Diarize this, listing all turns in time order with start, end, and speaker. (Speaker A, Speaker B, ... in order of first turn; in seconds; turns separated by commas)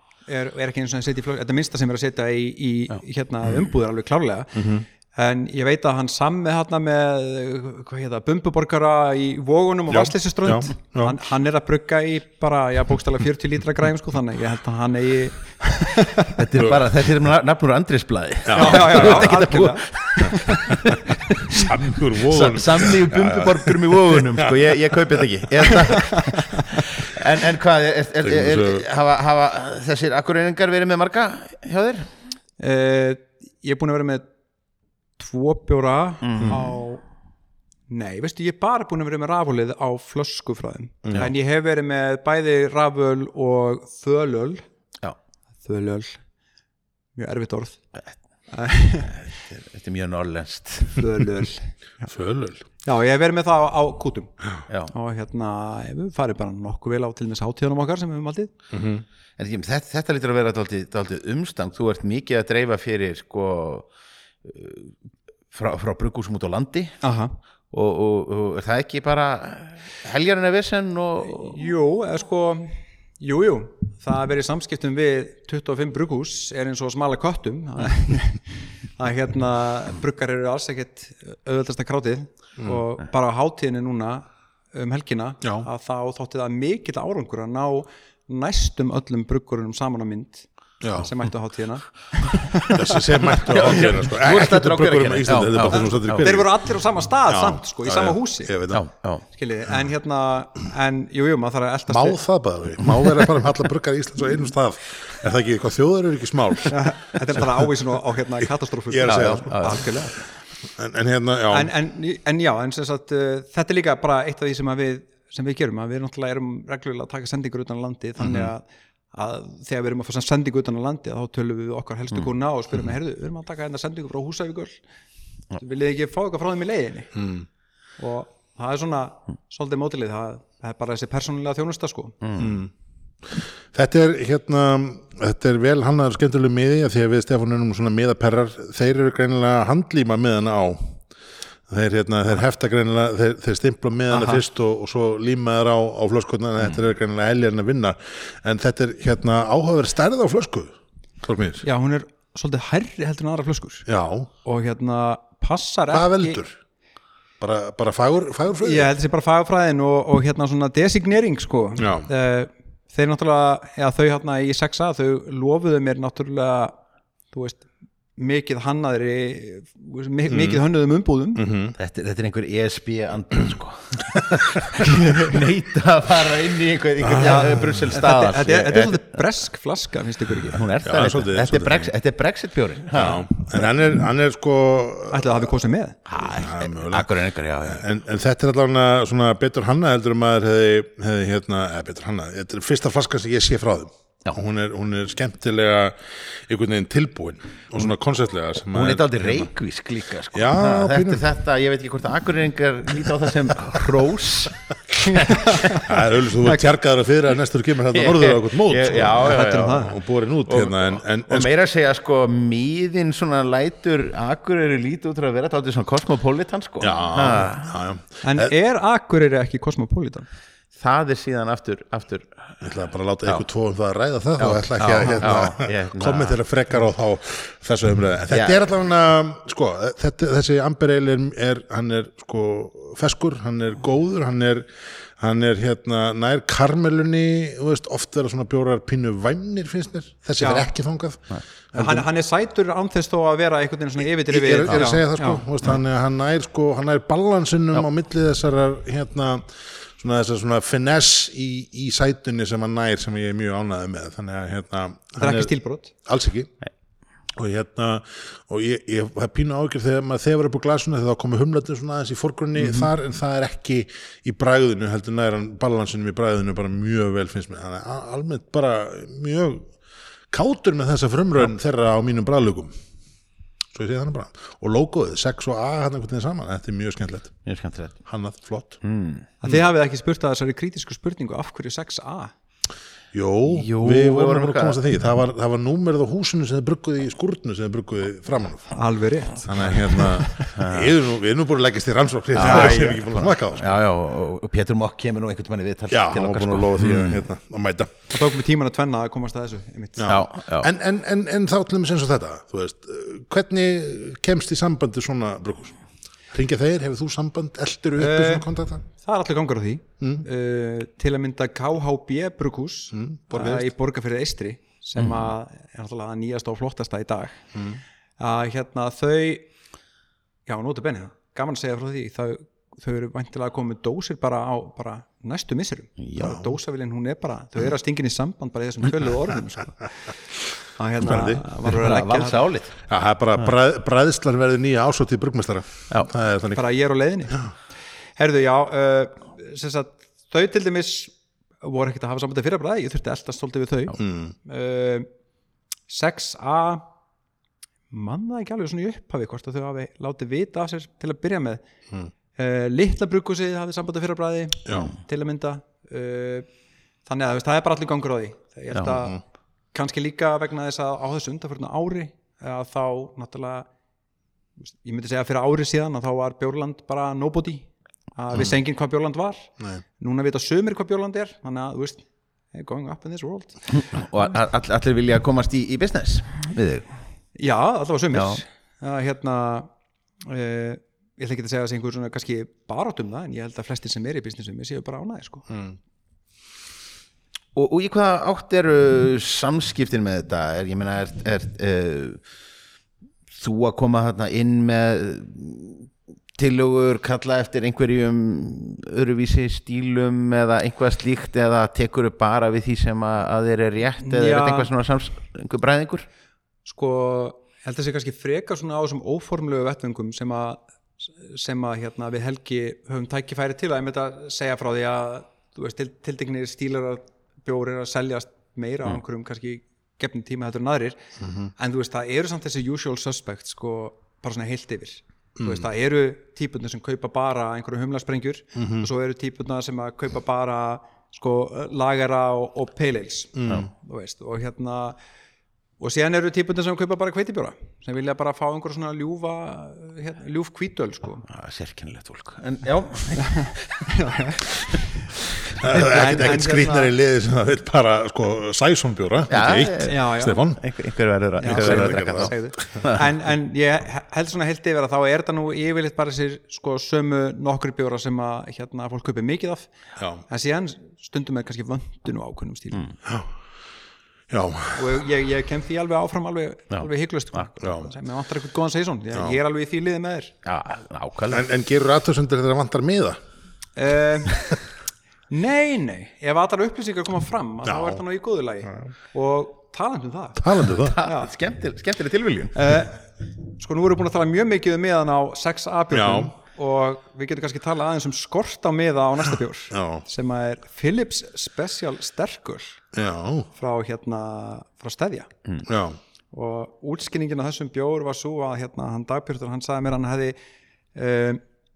Speaker A: 0.3-16.4, Speaker B: 4.5-4.8, Speaker B: 9.9-11.2, Speaker C: 16.4-32.2, Speaker B: 16.6-16.9, Speaker B: 18.5-19.4, Speaker A: 18.6-20.7, Speaker B: 21.5-25.2, Speaker A: 26.0-26.6, Speaker B: 28.2-28.8, Speaker A: 32.6-34.3, Speaker A: 35.2-37.1, Speaker C: 36.2-36.7, Speaker A: 37.9-44.6, Speaker B: 41.0-41.3, Speaker A: 45.6-46.2, Speaker A: 47.2-47.9, Speaker A: 48.5-49.2, Speaker C: 49.1-51.2, Speaker A: 51.0-52.1, Speaker B: 52.1-52.6, Speaker A: 52.8-54.4, Speaker A: 54.9-58.5, Speaker B: 58.7-59.0, Speaker C: 59.4-63.9, Speaker C: 64.4-65.0, Speaker C: 65.5-67.0, Speaker A: 67.0-67.4, Speaker C: 67.7-71.6, Speaker A: 71.3-93.0, Speaker B: 90.8-91.1, Speaker B: 92.7-98.8, Speaker C: 93.5-96.4, Speaker A: 95.7-98.5, Speaker C: 98.7-99.2, Speaker A: 99.3-102.2, Speaker B: 101.9-107.4, Speaker A: 106.7-110.2, Speaker B: 108.9-110.2, Speaker C: 109.1-109.9, Speaker B: 110.8-111.7, Speaker A: 111.5-124.8, Speaker B: 118.2-118.5, Speaker A: 125.6-127.1, Speaker B: 127.2-127.5, Speaker A: 128.0-132.2, Speaker C: 132.2-132.6, Speaker B: 132.4-132.7, Speaker B: 133.3-141.0, Speaker B: 141.7-151.7, Speaker A: 144.1-144.4, Speaker A: 151.6-153.9, Speaker B: 153.9-154.3, Speaker A: 154.4-156.4, Speaker B: 155.9-156.5, Speaker B: 157.4-158.9, Speaker A: 158.5-171.5, Speaker B: 161.8-162.1, Speaker B: 170.3-170.6, Speaker B: 171.4-171.8, Speaker C: 171.8-179.2, Speaker A: 175.0-175.3, Speaker B: 177.0-177.9, Speaker A: 177.2-180.6, Speaker C: 180.4-183.7, Speaker B: 180.8-181.9, Speaker B: 182.9-185.5, Speaker A: 185.1-186.0, Speaker C: 186.1-187.8, Speaker B: 186.2-199.5, Speaker C: 198.7-205.6, Speaker B: 200.3-201.2, Speaker A: 205.0-205.9, Speaker B: 205.8-211.5, Speaker C: 207.9-209.9, Speaker A: 209.1-210.0, Speaker C: 210.5-217.8, Speaker B: 216.8-218.5, Speaker A: 218.2-220.3, Speaker C: 220.8-222.6, Speaker B: 222.6-242.1, Speaker C: 224.4-226.4, Speaker C: 228.3-228.6, Speaker A: 240.4-240.7, Speaker A: 241.7-245.4, Speaker B: 244.3-256.5, Speaker A: 255.2-255.9, Speaker B: 257.3-269.7, Speaker C: 262.6-262.9, Speaker B: 270.3-272.7, Speaker B: 273.7-277.5, Speaker C: 277.4-278.0, Speaker B: 278.1-278.8, Speaker C: 278.8-279.3, Speaker A: 279.4-282.3, Speaker B: 283.1-288.8, Speaker C: 283.5-284.8, Speaker A: 288.7-290.4, Speaker B: 289.5-293.8, Speaker C: 290.4-291.0, Speaker C: 292.4-297.3, Speaker A: 292.4-292.9, Speaker B: 295.9-298.1, Speaker A: 298.1-300.1, Speaker B: 300.0-305.8, Speaker C: 300.1-300.7, Speaker B: 306.3-308.8, Speaker A: 308.0-317.5, Speaker B: 312.9-313.7, Speaker B: 317.6-317.8, Speaker A: 318.2-319.5, Speaker A: 320.5-330.2, Speaker C: 326.0-326.4, Speaker A: 330.8-332.5, Speaker B: 331.0-331.4, Speaker C: 331.6-332.7, Speaker B: 332.9-336.6, Speaker A: 336.6-337.5, Speaker A: 338.2-345.1, Speaker B: 344.0-344.4, Speaker A: 345.9-346.9, Speaker A: 347.9-351.6, Speaker A: 352.4-356.5, Speaker A: 357.1-359.2, Speaker A: 359.7-363.7, Speaker A: 364.6-373.6, Speaker C: 373.7-376.9, Speaker A: 377.4-379.7, Speaker C: 378.1-378.4, Speaker A: 380.2-385.5, Speaker B: 385.5-385.8, Speaker C: 387.6-392.2, Speaker C: 393.3-406.1, Speaker A: 404.0-404.7, Speaker A: 406.6-421.0, Speaker B: 421.2-421.5, Speaker A: 421.6-435.0, Speaker B: 425.4-425.6, Speaker B: 428.6-428.9, Speaker B: 433.4-433.7, Speaker A: 435.8-441.2, Speaker C: 441.3-443.9, Speaker A: 443.2-444.4, Speaker B: 445.6-450.6, Speaker A: 445.7-446.9, Speaker C: 449.3-450.0, Speaker A: 449.9-450.4, Speaker C: 450.6-453.0, Speaker A: 451.4-459.7, Speaker B: 451.4-452.9, Speaker B: 460.0-460.2, Speaker A: 460.3-462.9, Speaker B: 464.3-465.1, Speaker A: 464.8-470.3, Speaker C: 466.7-467.4, Speaker B: 467.6-467.9, Speaker C: 470.4-471.5, Speaker B: 471.3-473.2, Speaker A: 473.8-474.6, Speaker A: 475.3-481.3, Speaker B: 477.7-478.0, Speaker B: 480.4-481.0, Speaker C: 480.9-482.7, Speaker A: 482.5-492.8, Speaker B: 485.9-486.3, Speaker B: 489.7-490.1, Speaker B: 492.9-493.5, Speaker A: 493.5-495.3, Speaker B: 495.7-496.0, Speaker A: 496.3-500.4, Speaker A: 500.9-501.4